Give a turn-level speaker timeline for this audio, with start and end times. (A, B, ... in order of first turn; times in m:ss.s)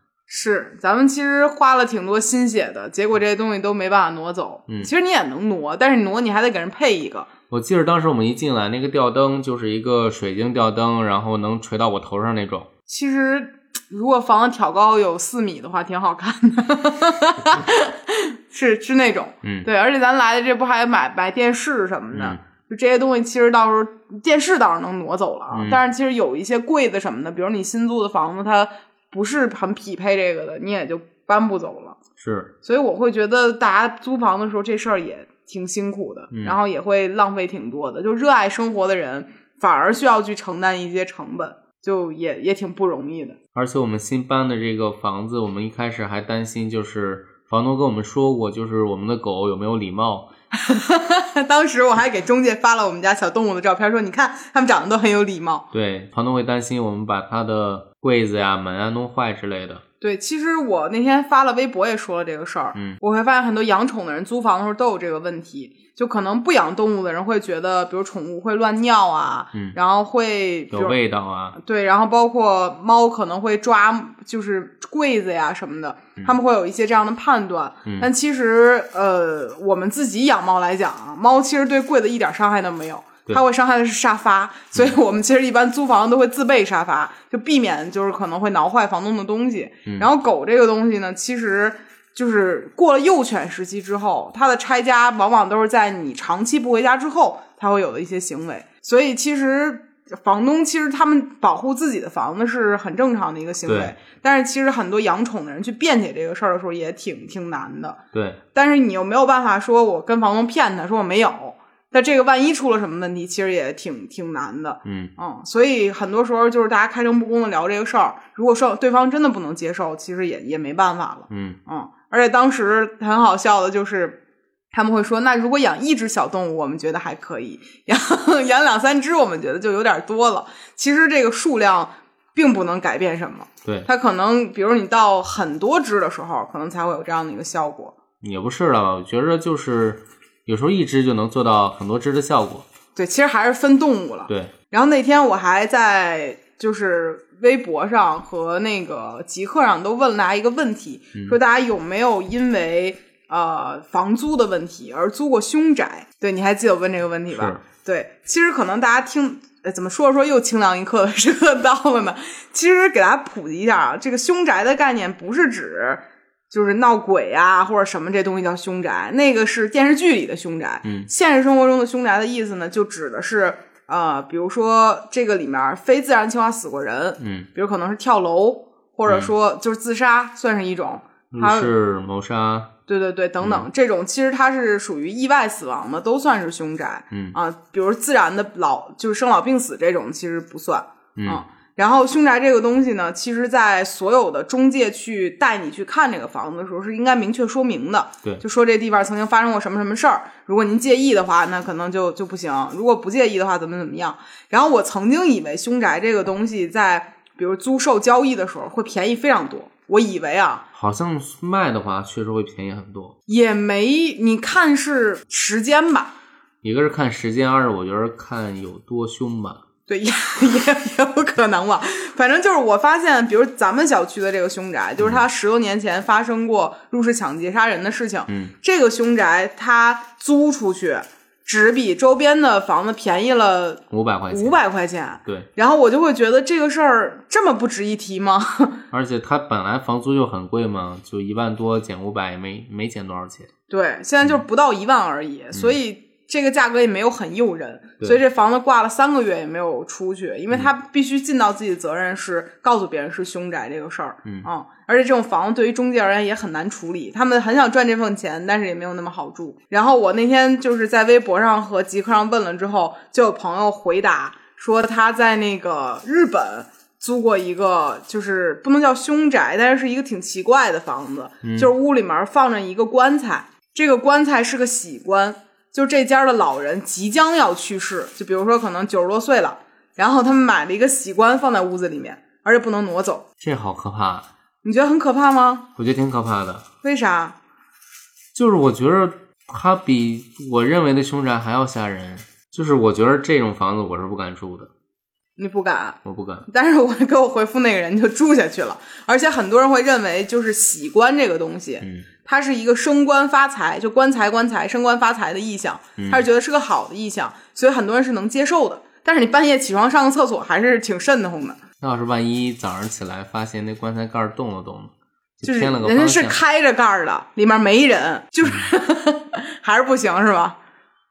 0:00.3-0:07.3 A
0:07.5-0:12.7 B
0:12.9-0:32.0 A
0:22.1-0:22.4 B
0:25.5-0:25.8 B
0:32.2-0:32.5 B
0:32.6-0:43.4 A
0:36.3-0:36.6 B
0:43.5-0:50.3 B
0:50.5-0:55.6 A
0:55.7-0:59.8 B
1:00.0-1:11.0 A
1:10.7-1:11.6 B
1:11.5-1:48.0 A
1:43.6-1:43.9 B
1:48.1-1:48.4 B
1:48.5-2:04.2 A
1:54.8-1:55.1 B
2:01.3-2:01.6 B
2:04.7-2:18.0 A
2:18.2-2:22.7 B
2:22.9-3:01.7 A
2:24.3-2:24.5 B
2:37.3-2:37.6 B
2:50.8-2:51.1 B
2:57.2-2:57.5 B
2:59.0-2:59.3 B
3:01.3-3:02.7 B
3:02.9-3:30.6 A
3:03.4-3:03.6 B
3:07.1-3:07.4 B
3:11.2-3:11.4 B
3:30.7-3:33.1 B
3:33.3-3:36.1 A
3:36.6-3:39.6 B
3:39.9-3:58.8 A
3:53.9-3:54.6 B
3:58.9-4:03.5 B
4:03.7-4:43.2 A
4:31.4-4:31.7 B
4:43.4-4:44.3 B
4:44.6-4:45.6 A
4:45.8-4:46.6 B
4:46.8-4:47.4 A
4:48.3-4:54.7 B
4:55.4-5:11.6 A
4:56.0-4:56.4 B
5:01.8-5:02.1 B
5:06.0-5:06.2 B
5:11.8-5:16.4 B
5:15.4-5:20.6 A